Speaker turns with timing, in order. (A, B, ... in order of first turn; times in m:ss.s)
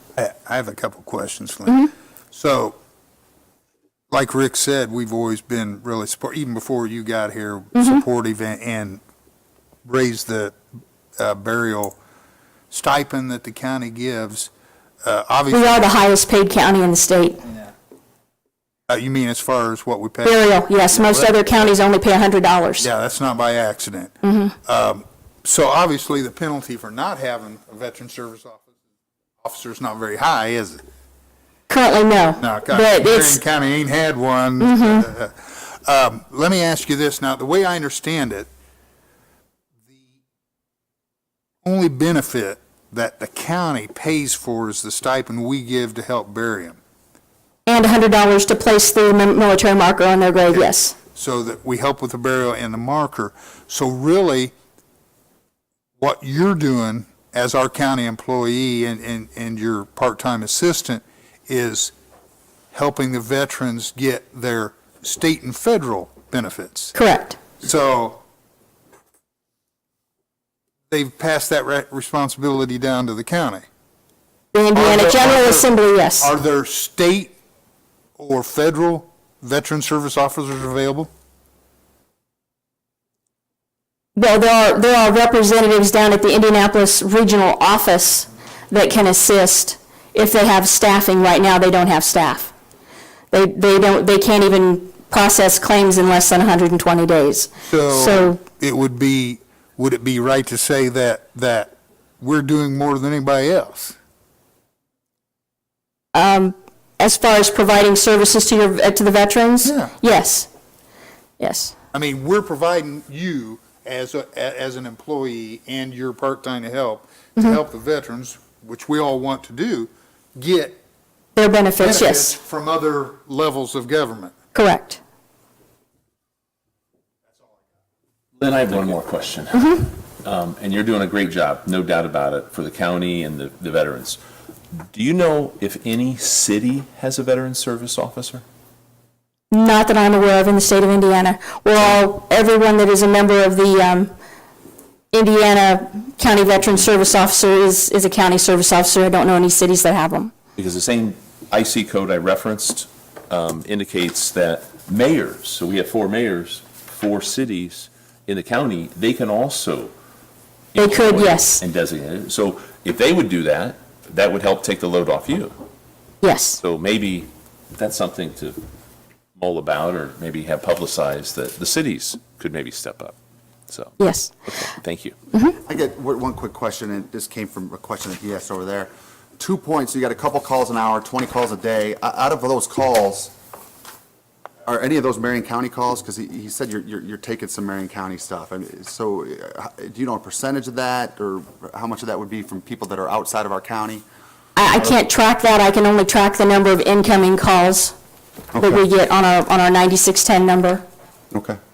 0:00.2-0:02.8 A
0:04.1-0:09.0 A
0:07.7-0:08.0 B
0:09.8-0:10.6 A
0:11.2-0:12.0 A
0:12.7-0:14.5 A
0:15.0-0:15.9 A
0:15.5-0:17.4 B
0:17.4-0:17.7 A
0:18.9-0:21.3 A
0:20.2-0:22.9 B
0:22.8-0:28.7 A
0:24.2-0:24.5 B
0:29.4-0:30.8 A
0:31.7-0:33.4 B
0:32.4-0:38.5 A
0:34.6-0:35.1 B
0:41.6-0:46.8 A
0:47.6-0:50.9 B
0:50.5-0:54.5 A
0:56.0-1:01.9 A
1:02.7-1:06.9 A
1:06.9-1:07.4 B
1:07.6-1:08.2 A
1:10.9-1:13.6 A
1:14.5-1:16.3 B
1:14.7-1:17.4 A
1:18.2-1:21.1 A
1:24.2-1:32.5 B
1:33.3-1:38.4 B
1:37.6-1:44.0 A
1:46.1-1:50.5 B
1:49.6-1:49.9 A
1:51.4-1:51.7 B
1:51.9-2:00.8 A
2:01.4-2:02.4 B
2:01.8-2:04.3 A
2:04.5-2:05.0 B
2:08.4-2:14.2 C
2:09.5-2:09.9 B
2:14.9-2:18.4 C
2:19.5-2:24.1 B
2:25.1-2:30.3 B
2:30.6-2:39.9 C
2:40.7-2:45.6 C
2:40.8-2:41.6 B
2:46.2-2:46.6 B
2:46.6-2:48.6 C
2:49.4-2:53.1 C
2:53.7-2:55.2 C
2:54.0-2:54.3 B
2:55.6-3:03.3 D
3:04.6-3:14.0 D
3:14.6-3:17.9 B
3:18.5-3:18.8 D
3:18.6-3:20.8 B
3:21.3-3:21.6 D